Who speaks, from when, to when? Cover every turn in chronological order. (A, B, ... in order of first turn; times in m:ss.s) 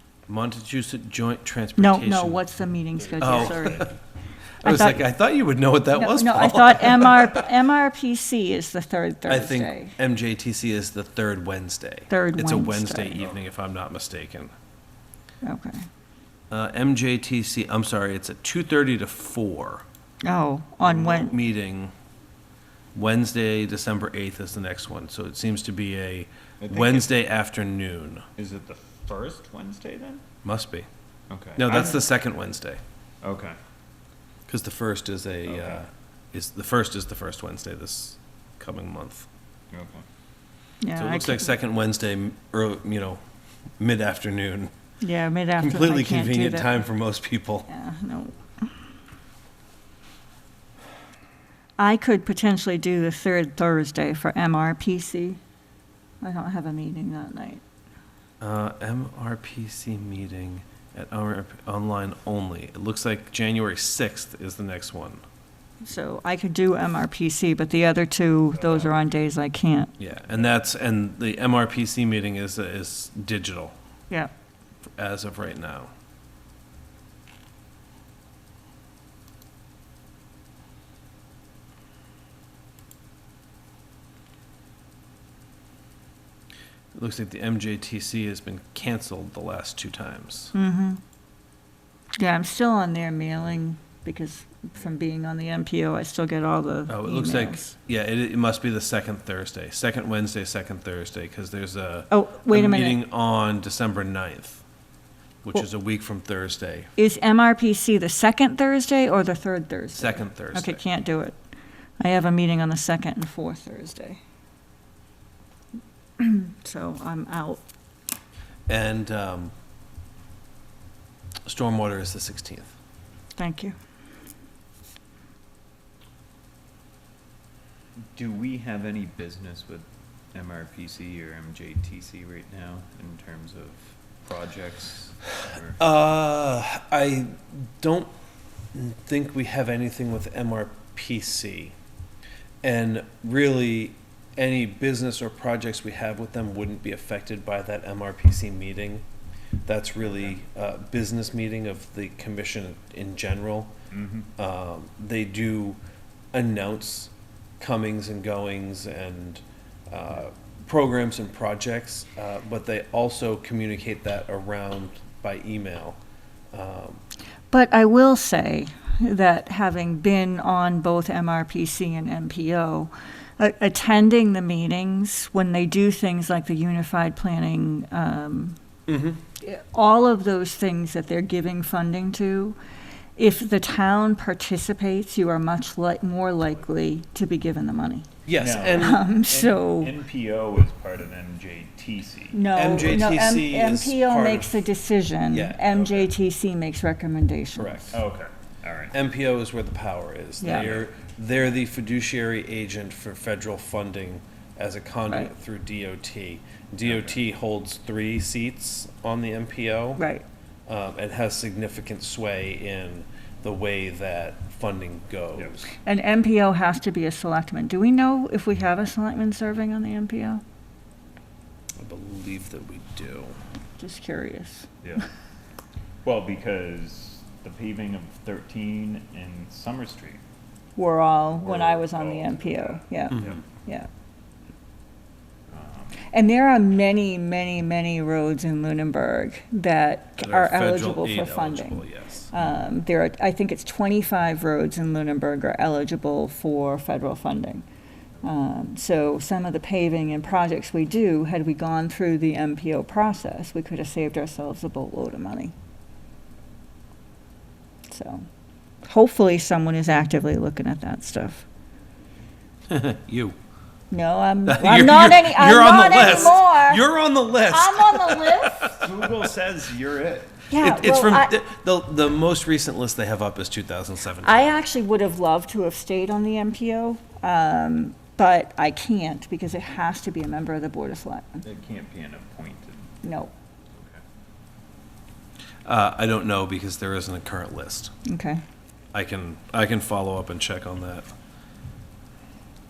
0:00.3-0:02.4 A
0:01.8-0:04.0 B
0:03.2-0:03.9 A
0:04.6-0:05.0 B
0:04.6-0:07.5 A
0:05.9-0:09.9 B
0:09.3-0:14.5 A
0:12.1-0:13.2 B
0:15.4-0:15.8 B
0:16.5-0:19.8 A
0:20.2-0:21.3 B
0:20.8-0:21.9 A
0:22.9-0:28.2 A
0:26.6-0:27.1 C
0:28.4-0:30.2 C
0:30.4-0:30.9 A
0:31.3-0:32.1 C
0:31.6-0:32.8 A
0:33.2-0:33.5 C
0:34.5-0:39.3 A
0:35.5-0:35.8 C
0:39.7-0:40.0 C
0:40.8-0:41.5 B
0:40.9-0:43.2 A
0:43.8-0:44.7 A
0:45.0-0:46.8 B
0:45.6-0:47.7 A
0:47.7-0:48.7 B
0:51.8-0:55.4 B
0:56.2-0:57.6 B
0:58.4-1:05.2 A
1:05.8-1:09.9 B
1:08.6-1:08.9 C
1:10.0-1:13.7 A
1:15.0-1:15.9 A
1:26.9-1:30.5 A
1:30.5-1:31.0 B
1:32.2-1:37.7 B
1:36.9-1:44.6 A
1:42.1-1:43.0 B
1:45.4-1:46.9 A
1:47.0-1:51.4 B
1:49.9-1:50.8 A
1:52.0-1:54.2 B
1:56.2-1:57.6 B
1:58.7-1:59.5 A
2:01.4-2:02.7 A
2:03.4-2:03.7 B
2:08.1-2:15.8 C
2:15.8-2:18.1 A
2:18.7-2:21.7 A
2:22.6-2:29.0 A
2:29.6-2:33.7 A
2:33.9-2:34.3 C
2:34.4-2:35.8 A
2:36.3-2:46.0 A
2:46.5-2:47.0 A
2:47.5-2:58.6 B
2:58.9-2:59.2 A
2:59.4-3:02.6 B
3:03.2-3:08.1 B
3:08.2-3:09.0 A
3:08.4-3:13.1 C
3:08.8-3:09.9 B
3:12.3-3:18.0 B
3:12.5-3:14.7 A
3:15.3-3:16.1 A
3:17.6-3:18.0 A
3:17.9-3:18.9 C
3:18.9-3:30.0 A
3:20.4-3:20.7 B
3:20.5-3:20.9 C
3:26.8-3:27.2 C
3:30.0-3:30.2 B
3:30.7-3:35.7 A
3:35.8-3:40.4 B
3:41.8-3:43.4 A
3:43.8-3:44.7 B
3:44.8-3:45.1 C
3:46.0-3:50.2 C
3:50.8-3:53.9 B
3:51.4-3:53.4 C
3:53.1-3:53.4 A
3:55.5-3:56.0 C
3:56.1-4:07.6 B
4:00.2-4:02.3 A
4:08.2-4:15.5 B
4:17.9-4:18.2 B
4:18.8-4:21.4 B
4:22.7-4:23.3 A
4:23.9-4:26.8 B
4:24.5-4:28.9 A
4:27.5-4:28.7 B
4:28.8-4:30.4 C
4:30.5-4:31.3 B
4:30.6-4:34.5 A
4:34.2-4:41.4 B
4:41.4-4:42.9 C
4:43.0-4:43.3 B
4:43.7-4:44.0 C
4:45.6-4:47.9 A
4:48.0-4:48.4 B
4:48.9-4:51.1 A